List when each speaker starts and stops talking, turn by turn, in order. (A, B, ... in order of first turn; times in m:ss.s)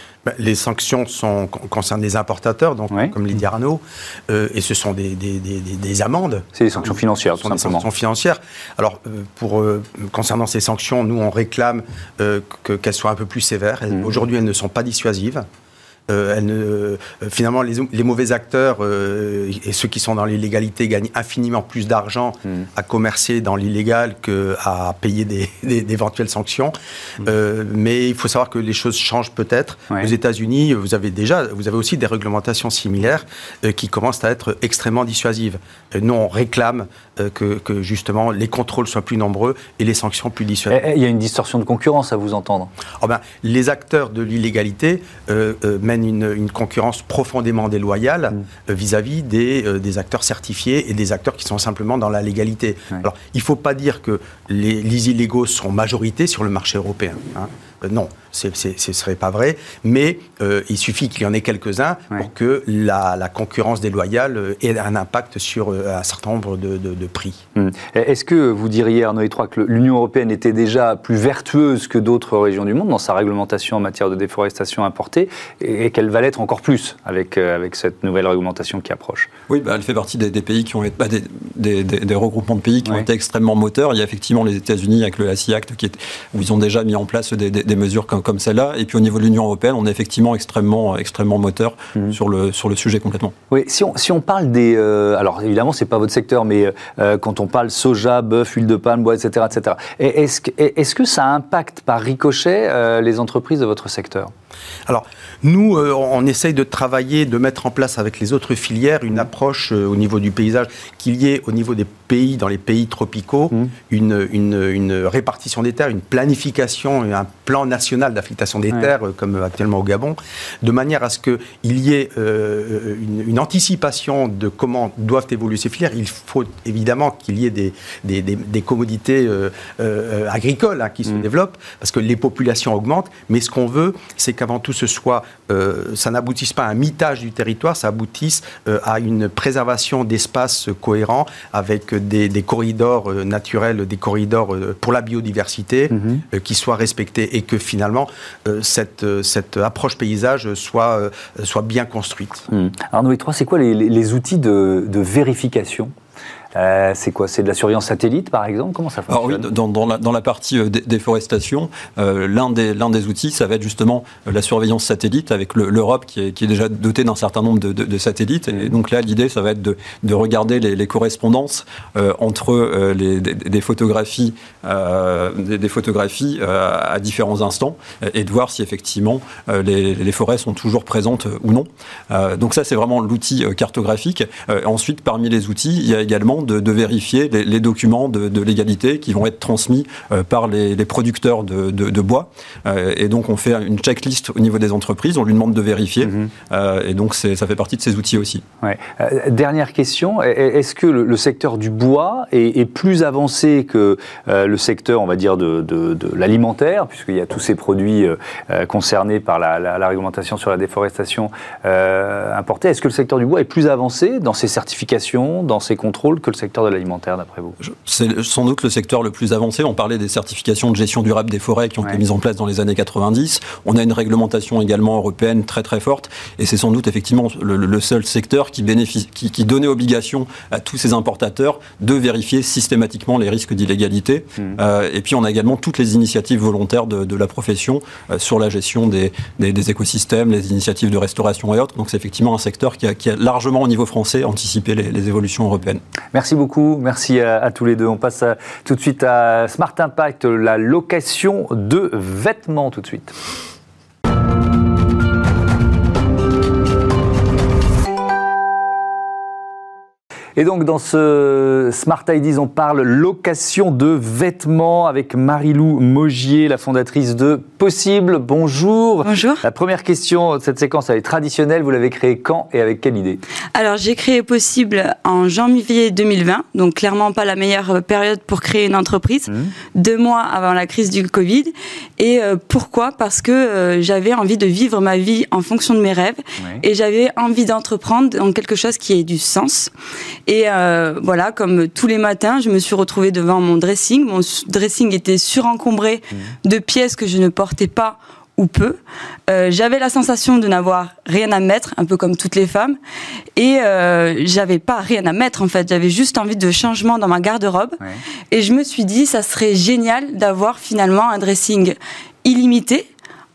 0:00.2-0:06.5 A
0:06.5-0:07.8 B
0:07.4-0:15.4 A
0:16.1-0:40.8 A
0:40.7-0:42.7 B
0:43.0-1:07.4 A
1:07.6-1:19.3 B
1:19.5-1:33.3 C
1:33.5-1:44.3 B
1:44.9-2:32.5 A
2:25.9-2:26.2 B
2:32.5-2:35.9 B
2:36.5-2:39.5 B
2:39.1-3:18.4 C
3:18.6-3:37.6 B
3:37.6-4:05.8 C
4:06.1-4:13.2 B
4:20.4-4:33.2 B
4:29.0-4:29.4 D
4:33.5-4:49.7 D
4:50.2-5:02.8 D
5:03.4-5:07.8 D
5:08.3-5:12.9 D